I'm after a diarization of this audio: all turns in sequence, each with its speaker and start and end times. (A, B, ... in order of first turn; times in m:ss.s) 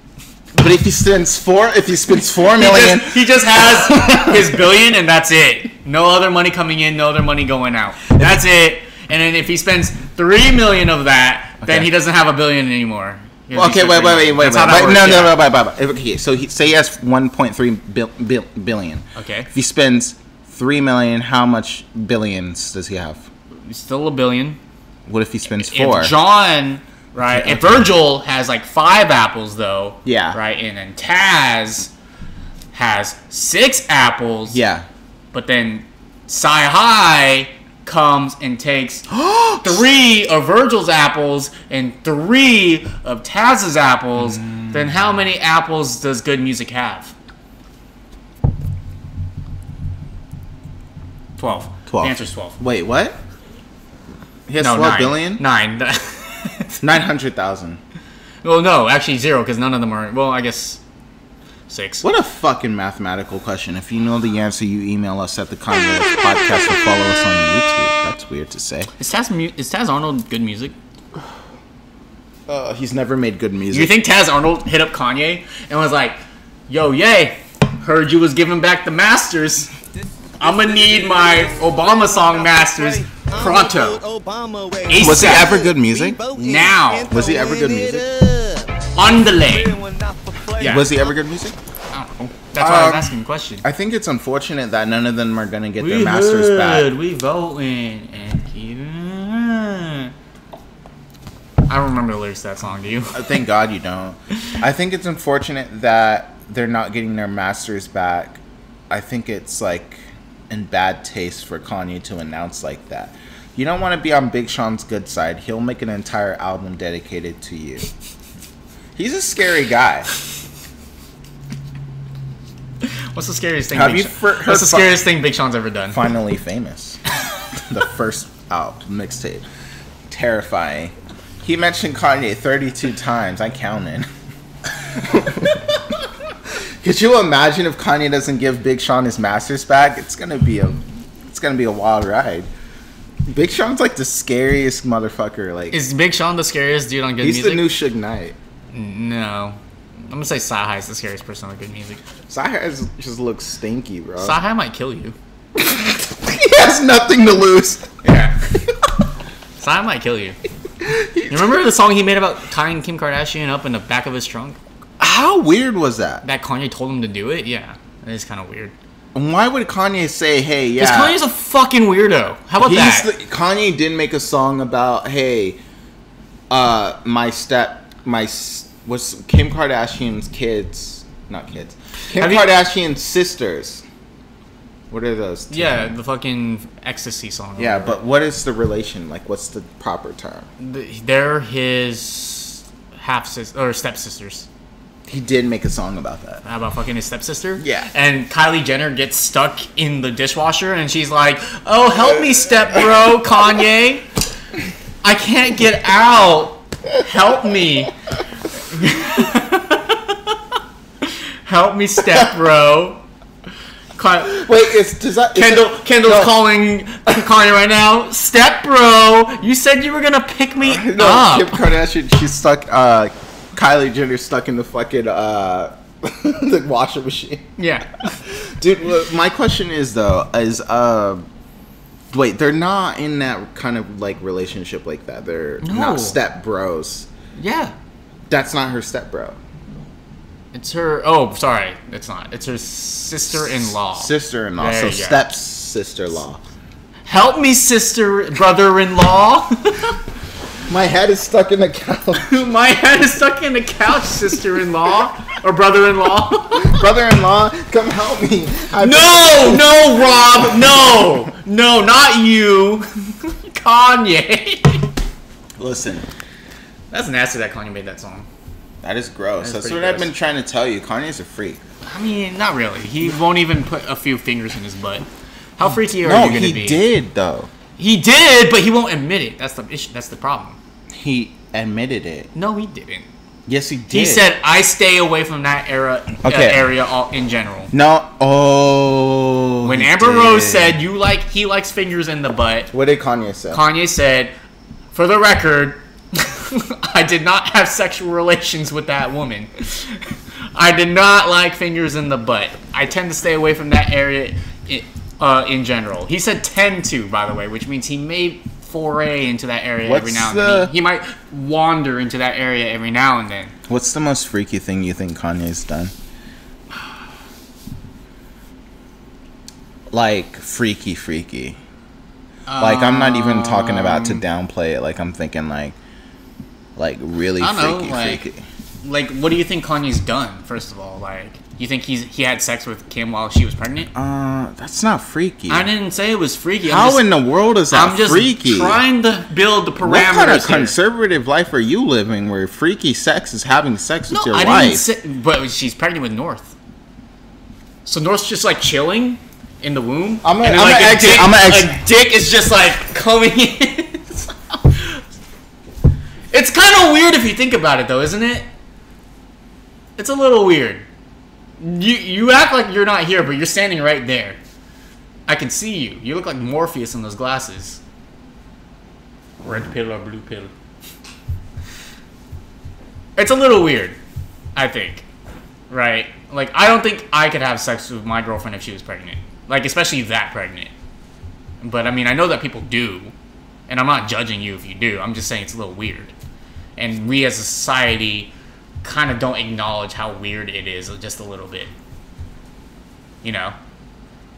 0:00.6-0:03.2 A
0:02.5-0:15.4 B
0:04.0-0:04.4 A
0:11.6-0:11.9 A
0:13.5-0:23.3 A
0:19.2-0:19.5 B
0:23.7-0:24.6 B
0:25.1-0:26.1 A
0:25.5-0:31.9 B
0:27.3-0:27.9 A
0:30.0-0:30.4 A
0:32.7-0:34.6 B
0:34.5-0:34.9 A
0:35.3-0:39.1 B
0:39.1-0:39.8 A
0:39.6-0:47.1 B
0:51.4-0:52.6 B
0:51.9-0:53.2 A
0:54.5-0:55.4 A
0:54.6-0:56.8 B
0:56.8-0:57.8 A
0:58.4-1:00.8 B
1:01.7-1:02.0 B
1:02.0-1:08.9 A
1:09.0-1:10.8 B
1:12.5-1:13.9 A
1:13.7-1:19.7 B
1:20.4-1:31.2 C
1:20.4-1:24.0 B
1:24.9-1:25.5 B
1:25.0-1:26.2 A
1:26.4-1:27.1 B
1:27.1-1:28.0 A
1:29.0-1:29.8 B
1:30.6-1:30.9 B
1:30.6-1:31.6 A
1:31.9-1:33.6 B
1:32.6-1:36.9 A
1:35.8-1:40.1 B
1:41.7-1:43.2 B
1:43.1-1:57.9 A
1:59.0-2:00.1 A
2:02.8-2:06.0 B
2:03.7-2:05.0 A
2:05.9-2:07.0 A
2:07.7-2:09.4 A
2:10.1-2:14.1 A
2:14.7-2:15.8 A
2:16.8-2:22.5 A
2:23.3-2:25.8 A
2:25.7-2:27.7 B
2:27.2-2:28.4 A
2:28.7-2:32.0 B
2:32.3-2:34.4 A
2:34.2-2:35.2 B
2:35.6-2:37.9 A
2:38.0-2:38.4 B
2:39.6-2:40.4 B
2:40.8-2:41.6 A
2:41.3-2:44.6 B
2:45.0-2:46.2 A
2:46.2-2:48.7 B
2:49.1-2:51.2 A
2:50.8-2:53.1 B
2:52.6-2:55.6 A
2:56.5-3:03.8 A
3:02.2-3:02.5 B
3:04.9-3:05.9 A
3:05.5-3:08.0 B
3:07.6-3:10.5 A
3:10.6-3:14.5 B
3:15.1-3:16.4 A
3:16.4-3:24.0 B
3:17.6-3:17.9 A
3:22.2-3:22.9 A
3:25.0-3:27.9 B
3:28.7-3:30.3 B
3:31.0-3:33.0 B
3:34.0-3:34.4 B
3:34.3-3:36.4 A
3:35.4-3:41.6 B
3:40.6-3:47.5 A
3:47.6-3:48.2 B
3:48.2-3:51.2 A
3:52.1-3:57.1 A
3:55.6-3:56.2 B
3:57.4-3:57.7 B
3:58.3-3:59.4 A
4:00.5-4:05.2 B
4:03.9-4:06.4 A
4:07.1-4:10.0 B
4:10.7-4:12.3 A
4:12.2-4:16.8 B
4:16.6-4:20.5 A
4:18.8-4:24.9 B
4:25.6-4:26.1 A
4:26.9-4:28.3 B
4:28.8-4:31.6 A
4:29.4-4:30.1 B
4:31.8-4:35.0 B
4:35.6-4:36.8 B
4:36.0-4:37.5 A
4:37.8-4:40.6 B
4:40.9-4:42.3 A
4:42.4-4:43.1 B
4:43.5-4:44.3 A
4:43.9-4:47.7 B
4:46.2-4:46.7 A
4:47.7-4:50.8 A
4:49.6-4:52.7 B
4:52.7-4:53.6 A
4:53.5-4:54.3 B
4:54.9-5:13.5 B
5:09.8-5:10.7 A
5:13.7-5:15.9 A
5:19.9-5:21.6 A
5:22.5-5:24.2 B
5:22.6-5:25.8 A
5:26.8-5:28.4 A
5:27.4-5:28.2 B
5:28.8-5:33.9 B
5:34.0-5:35.7 A
5:35.5-5:37.1 B
5:36.6-5:38.8 A
5:37.7-5:40.8 B
5:39.8-5:44.8 A
5:44.1-5:46.5 B
5:47.8-5:55.0 B
5:50.2-5:51.8 A
5:56.3-5:58.5 B
6:00.0-6:00.8 B
6:01.6-6:04.4 B
6:05.3-6:07.8 B
6:09.4-6:10.5 B
6:13.2-6:14.0 B
6:14.6-6:15.0 B
6:15.7-6:20.7 B
6:21.6-6:23.1 B
6:23.7-6:26.1 B
6:26.8-6:28.3 B
6:28.8-6:31.7 B
6:33.2-6:33.6 B